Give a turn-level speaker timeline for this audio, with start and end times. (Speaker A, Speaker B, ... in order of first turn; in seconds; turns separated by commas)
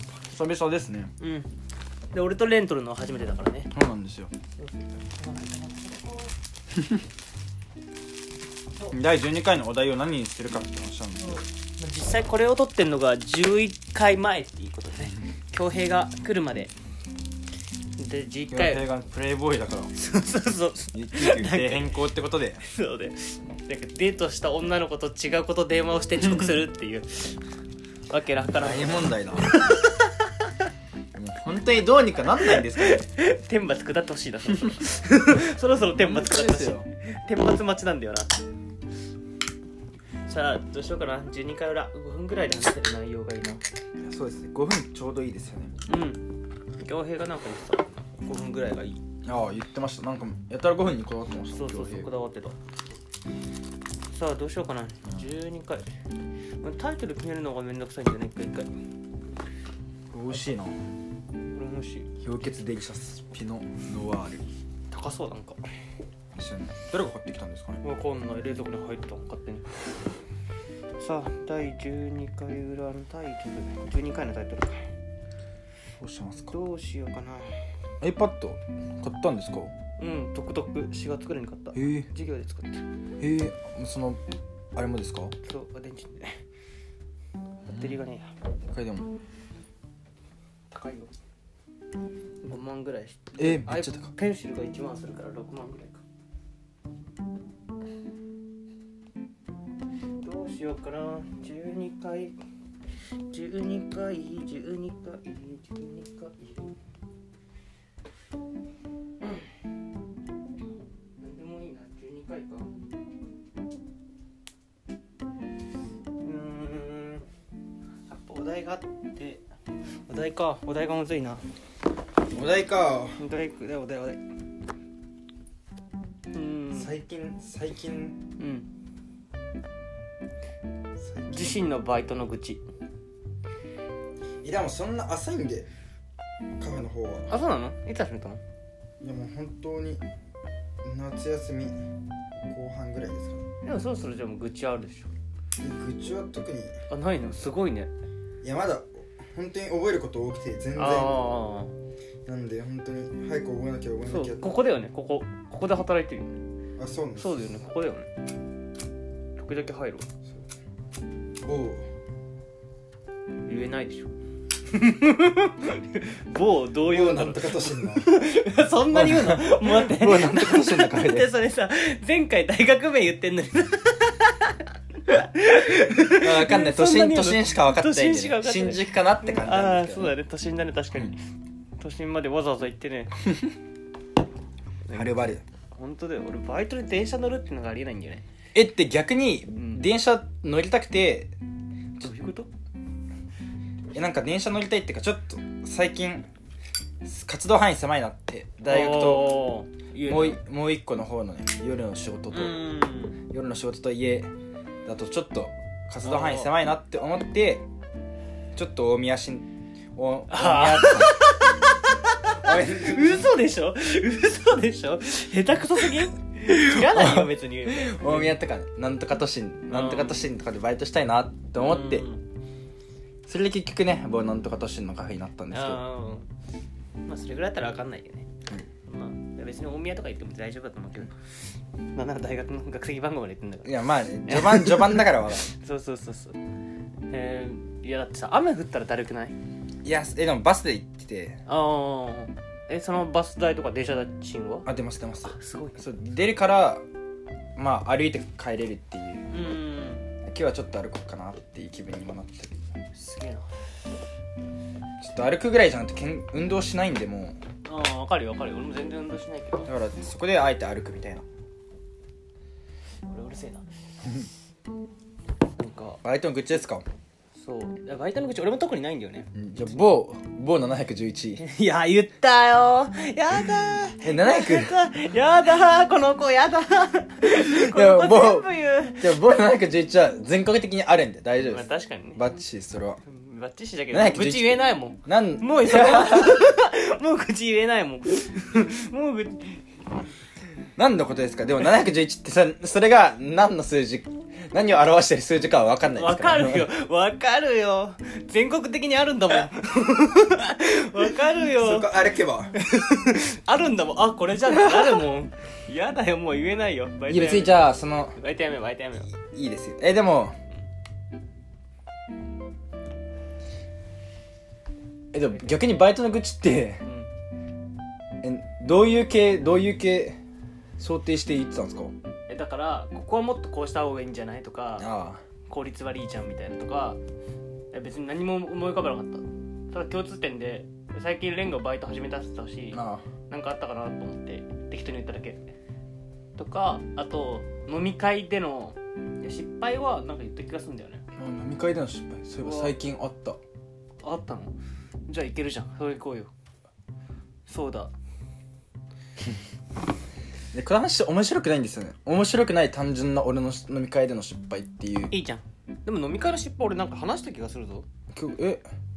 Speaker A: 0.3-1.1, Speaker B: 1.2-1.5, Speaker B: 2.1-3.7, Speaker A: 3.7-4.3, Speaker B: 4.6-6.3, Speaker A: 6.7-7.0, Speaker A: 8.9-11.4, Speaker B: 11.2-16.7, Speaker B: 18.0-18.8, Speaker A: 18.5-19.9, Speaker B: 20.0-22.0, Speaker A: 20.9-22.6, Speaker B: 22.6-27.4, Speaker A: 26.2-26.5, Speaker B: 28.1-30.6, Speaker A: 28.5-29.6, Speaker A: 31.1-33.0, Speaker B: 32.4-38.4, Speaker A: 35.4-36.9, Speaker B: 40.3-43.6, Speaker A: 44.0-45.8, Speaker B: 45.9-49.0, Speaker A: 49.2-52.1, Speaker B: 51.5-52.6, Speaker B: 54.1-55.9, Speaker B: 56.6-58.7, Speaker A: 60.1-60.8, Speaker B: 61.5-62.1, Speaker A: 62.2-64.5, Speaker B: 64.9-65.6, Speaker A: 66.3-67.8, Speaker B: 67.8-69.8, Speaker B: 71.0-74.9, Speaker A: 76.0-76.6, Speaker B: 76.5-77.5, Speaker A: 78.0-79.7, Speaker B: 80.0-82.8, Speaker A: 81.7-82.1, Speaker A: 83.2-84.2, Speaker A: 84.8-85.3, Speaker B: 85.4-86.4, Speaker B: 87.7-88.3, Speaker A: 88.7-89.1, Speaker B: 90.7-91.1, Speaker B: 92.4-96.0, Speaker A: 93.4-94.1, Speaker B: 100.2-102.3, Speaker B: 103.3-106.8, Speaker B: 109.2-109.5, Speaker B: 111.2-112.8, Speaker B: 116.2-117.2, Speaker B: 118.1-119.4, Speaker B: 120.1-121.4, Speaker A: 122.3-123.2, Speaker B: 123.2-124.2, Speaker B: 126.3-126.9, Speaker A: 126.7-128.2, Speaker B: 128.4-128.7, Speaker A: 131.0-131.7, Speaker B: 131.3-132.6, Speaker A: 134.4-135.7, Speaker A: 136.6-137.3, Speaker B: 137.3-138.4, Speaker A: 139.0-140.0, Speaker A: 140.8-141.8, Speaker A: 142.5-143.4, Speaker B: 143.6-145.1, Speaker A: 145.6-146.8, Speaker B: 146.9-147.9, Speaker A: 148.4-151.3, Speaker B: 150.8-151.7, Speaker A: 152.3-154.6, Speaker B: 154.1-156.4, Speaker A: 156.8-157.5, Speaker B: 157.2-158.1, Speaker B: 159.4-160.1, Speaker A: 161.4-161.9, Speaker B: 163.5-164.1, Speaker B: 164.7-181.2, Speaker A: 166.8-168.2, Speaker A: 168.9-171.3, Speaker A: 176.1-180.2, Speaker B: 181.8-183.1, Speaker B: 184.8-188.2, Speaker A: 184.9-185.4, Speaker A: 188.6-191.3, Speaker B: 189.6-189.9, Speaker B: 192.0-192.5, Speaker A: 193.9-196.3, Speaker A: 197.0-199.4, Speaker B: 198.7-200.4, Speaker A: 200.0-202.7, Speaker B: 202.3-203.2, Speaker A: 203.3-204.3, Speaker A: 204.9-207.7, Speaker B: 206.0-206.5, Speaker A: 208.6-211.2, Speaker B: 210.3-218.3, Speaker A: 212.4-213.2, Speaker A: 216.5-222.1, Speaker B: 219.7-220.2, Speaker B: 221.6-222.3, Speaker A: 223.3-225.8, Speaker B: 225.5-226.3, Speaker B: 227.1-228.3, Speaker B: 228.9-231.2, Speaker B: 231.9-236.4, Speaker A: 233.7-235.5, Speaker B: 237.1-239.3, Speaker A: 239.8-241.4, Speaker B: 241.5-244.7, Speaker A: 244.7-246.8, Speaker B: 245.2-245.8, Speaker A: 247.6-249.5, Speaker B: 249.3-250.1, Speaker A: 250.2-252.6, Speaker B: 252.9-253.5, Speaker A: 255.0-257.4, Speaker B: 257.6-259.7, Speaker A: 259.7-261.2, Speaker B: 263.1-263.7, Speaker B: 265.6-266.0, Speaker A: 266.0-266.9, Speaker B: 267.4-269.4, Speaker A: 269.3-271.4, Speaker B: 271.4-279.2, Speaker A: 274.0-274.8, Speaker A: 277.3-281.6, Speaker B: 281.5-282.2, Speaker A: 282.2-283.0, Speaker B: 283.1-289.6, Speaker A: 283.9-286.5, Speaker A: 290.8-296.7, Speaker B: 296.0-301.9, Speaker A: 301.6-302.6, Speaker B: 302.6-309.1, Speaker A: 307.1-308.2, Speaker A: 309.2-310.4, Speaker A: 315.1-316.8, Speaker B: 316.8-317.1, Speaker A: 318.2-320.2, Speaker A: 320.8-321.9, Speaker B: 322.3-324.9, Speaker A: 324.8-325.2, Speaker B: 325.5-327.0, Speaker B: 327.7-335.5, Speaker A: 332.7-333.1, Speaker B: 336.4-341.0, Speaker A: 341.2-343.4, Speaker B: 342.4-342.8, Speaker B: 344.0-344.6, Speaker B: 345.1-346.3, Speaker B: 347.5-347.9, Speaker A: 350.5-355.1, Speaker B: 355.1-357.9, Speaker A: 358.1-358.6